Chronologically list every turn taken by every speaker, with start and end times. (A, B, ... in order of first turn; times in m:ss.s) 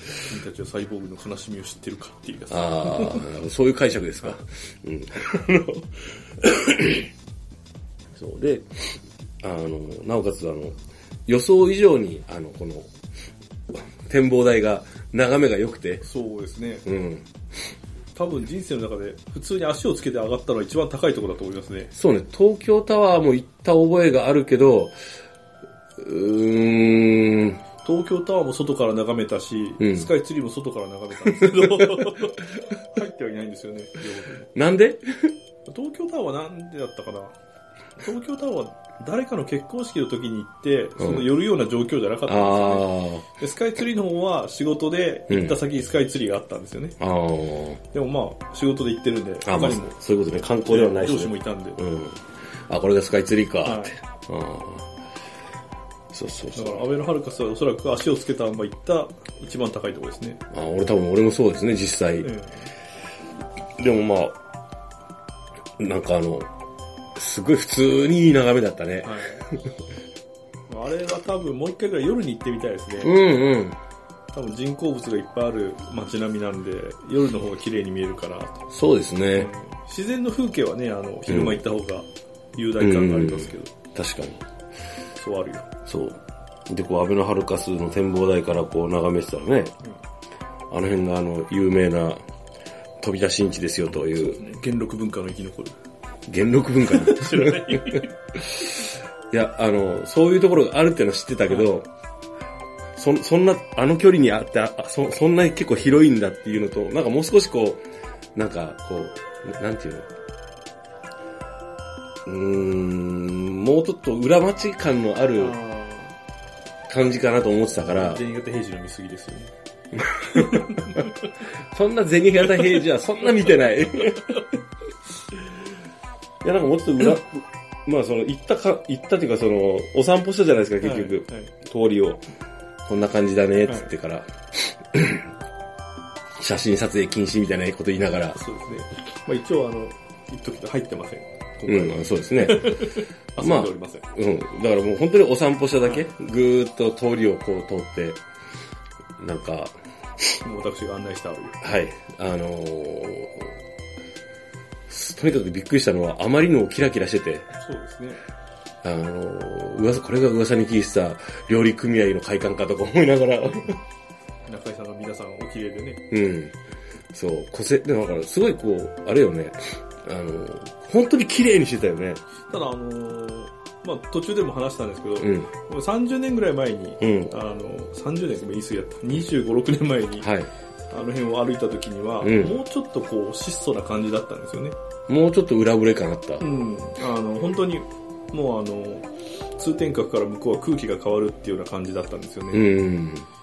0:00.2-0:03.3 A
0:02.5-0:07.1 B
0:08.2-0:10.8 B
0:11.3-0:12.9 B
0:13.7-0:16.0 B
0:16.0-0:16.9 A
0:16.9-0:17.3 B
0:18.2-0:21.9 A
0:22.0-0:24.9 B
0:26.0-0:27.6 B
0:27.8-0:34.5 A
0:29.8-0:30.1 B
0:31.3-0:32.3 B
0:34.5-0:35.4 B
0:35.7-0:37.4 A
0:38.0-0:47.0 A
0:41.0-0:41.3 B
0:42.3-0:43.3 B
0:45.3-0:45.6 B
0:47.0-0:47.8 B
0:47.9-0:50.0 A
0:49.4-0:54.9 B
0:50.7-0:51.8 A
0:53.6-0:54.0 A
0:56.1-0:56.9 B
0:56.6-1:00.4 A
1:00.5-1:02.3 B
1:02.2-1:02.7 A
1:03.8-1:04.4 B
1:05.8-1:06.5 B
1:07.2-1:09.7 B
1:09.0-1:09.4 A
1:10.7-1:13.2 A
1:13.0-1:13.8 B
1:14.3-1:18.6 A
1:18.7-1:19.5 B
1:19.4-1:23.7 A
1:21.3-1:21.6 B
1:22.8-1:24.4 B
1:25.2-1:25.7 A
1:25.9-1:29.7 B
1:30.7-1:32.2 B
1:33.0-1:34.4 B
1:34.1-1:35.8 A
1:36.3-1:38.0 B
1:36.8-1:38.1 A
1:39.3-1:41.9 B
1:43.0-1:47.8 B
1:48.4-1:50.1 B
1:52.3-1:55.6 B
1:55.4-1:56.2 A
1:56.9-1:58.2 B
1:57.8-1:59.5 A
2:00.0-2:01.0 B
2:00.4-2:01.1 A
2:01.7-2:04.6 B
2:02.5-2:02.8 A
2:06.4-2:12.2 B
2:10.8-2:11.5 A
2:12.9-2:15.3 B
2:16.4-2:18.4 B
2:18.4-2:24.1 A
2:21.7-2:28.2 B
2:29.2-2:29.7 B
2:30.4-2:31.6 A
2:31.6-2:33.5 B
2:34.9-2:37.5 B
2:37.6-2:38.2 A
2:38.8-2:43.8 B
2:44.5-2:46.0 A
2:46.1-2:46.6 B
2:47.1-2:52.2 B
2:52.5-3:00.3 A
2:55.2-2:55.5 B
2:57.0-2:57.3 B
3:00.2-3:00.5 B
3:00.9-3:04.8 A
3:02.2-3:02.6 B
3:05.1-3:06.4 B
3:06.4-3:12.8 A
3:12.5-3:13.3 B